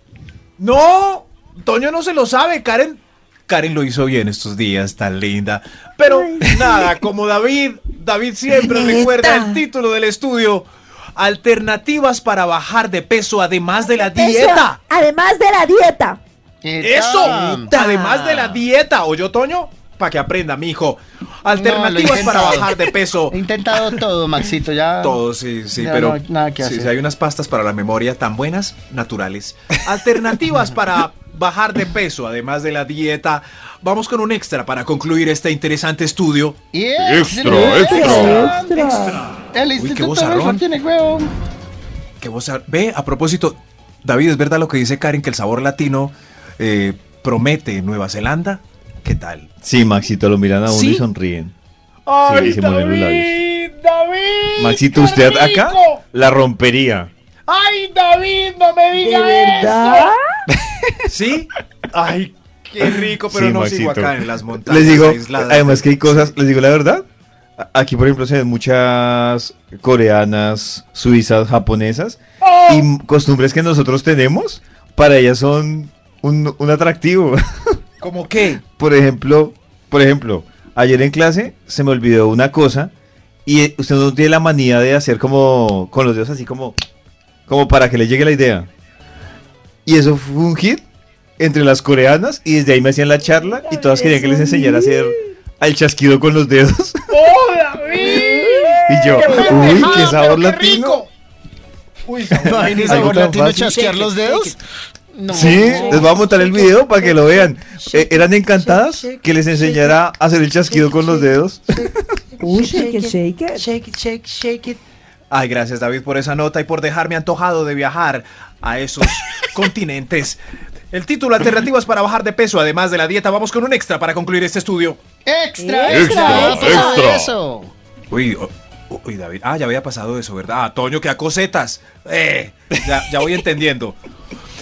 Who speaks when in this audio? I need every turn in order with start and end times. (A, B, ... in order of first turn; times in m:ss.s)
0:00.6-0:14.8 A
0:06.0-0:06.9 B
0:08.8-0:09.1 C
0:13.8-0:16.2 B
0:16.6-0:18.6 D
0:16.8-0:24.0 A
0:21.6-0:25.2 D
0:25.0-0:36.6 A
0:25.7-0:26.9 D
0:36.7-0:39.0 D
0:37.0-0:38.2 C
0:37.6-0:39.2 B
0:38.0-0:38.4 A
0:39.5-0:41.3 D
0:39.7-0:40.6 A
0:42.2-0:49.5 A
0:49.6-0:51.5 C
0:50.7-0:51.0 A
0:52.1-0:56.0 A
0:52.2-0:53.4 C
0:54.6-0:57.1 C
0:57.5-0:59.6 A
0:59.0-1:00.2 B
0:59.0-1:00.1 E
1:01.1-1:06.3 A
1:03.2-1:07.0 C
1:07.6-1:17.8 C
1:12.4-1:12.8 A
1:18.0-1:18.6 A
1:18.6-1:22.9 C
1:23.4-1:26.8 C
1:27.5-1:28.7 C
1:29.8-1:30.8 C
1:31.4-1:37.3 C
1:33.3-1:35.1 B
1:37.1-1:38.4 A
1:37.9-1:40.0 B
1:37.9-1:40.4 E
1:38.9-1:41.0 C
1:39.1-1:41.0 A
1:42.0-1:43.2 A
1:42.4-1:44.6 D
1:42.8-1:43.8 C
1:43.6-1:44.5 E
1:45.1-1:46.0 D
1:45.3-1:51.9 C
1:45.6-1:47.5 E
1:45.8-1:46.8 B
1:48.0-1:50.0 E
1:50.7-1:51.9 E
1:52.4-1:53.6 B
1:52.4-1:54.8 E
1:55.3-2:00.4 A
2:00.9-2:05.0 A
2:05.2-2:07.7 D
2:05.6-2:07.1 B
2:05.9-2:07.3 C
2:08.1-2:14.0 A